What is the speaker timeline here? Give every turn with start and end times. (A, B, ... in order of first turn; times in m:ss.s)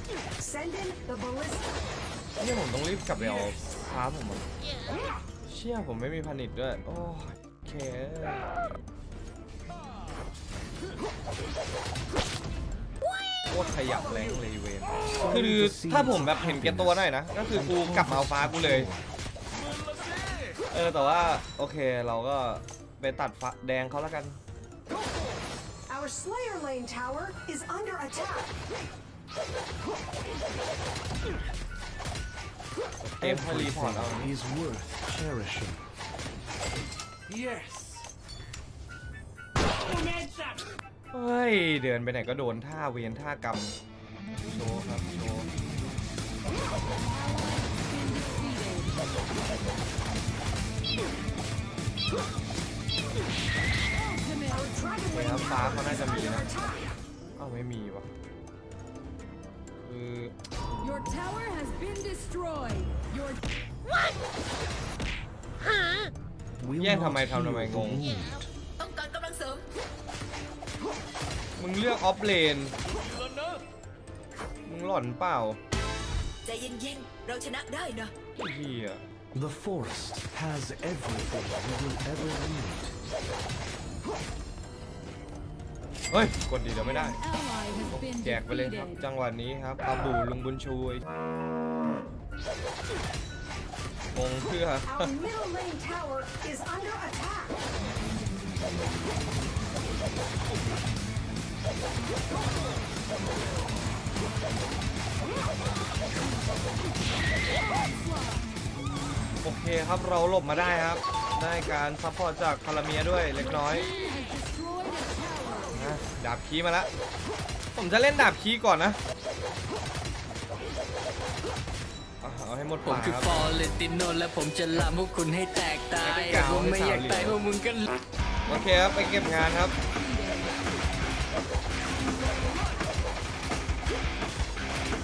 0:00.4-0:01.8 A
0:02.4-0:04.4 B
0:03.2-0:03.7 C
0:05.4-0:08.5 B
0:13.5-0:18.9 B
0:15.0-0:19.1 C
0:20.7-0:24.4 B
0:25.9-0:28.6 A
0:33.0-0:34.3 B
0:33.2-0:35.9 C
0:37.3-0:38.0 C
0:40.1-0:40.4 C
0:41.1-0:43.8 B
0:44.3-0:45.5 B
0:47.1-0:49.0 D
0:54.0-0:54.7 D
0:54.5-0:56.9 A
0:55.1-0:56.5 B
0:57.4-0:58.1 B
0:59.8-1:00.3 B
1:00.8-1:03.4 D
1:06.6-1:08.4 C
1:06.8-1:08.0 B
1:08.8-1:09.6 E
1:11.6-1:12.7 B
1:14.7-1:15.6 B
1:16.5-1:18.1 E
1:18.4-1:19.0 B
1:19.3-1:23.0 C
1:26.1-1:27.2 B
1:26.8-1:29.0 D
1:27.9-1:31.0 B
1:34.1-1:35.1 B
1:34.8-1:37.6 A
1:47.7-1:48.4 D
1:49.4-1:53.9 B
1:53.4-1:55.9 D
1:55.7-1:56.9 B
1:57.7-1:59.0 B
2:02.2-2:03.5 B
2:02.8-2:07.9 F
2:06.0-2:07.4 B
2:08.5-2:09.7 B
2:09.9-2:10.6 D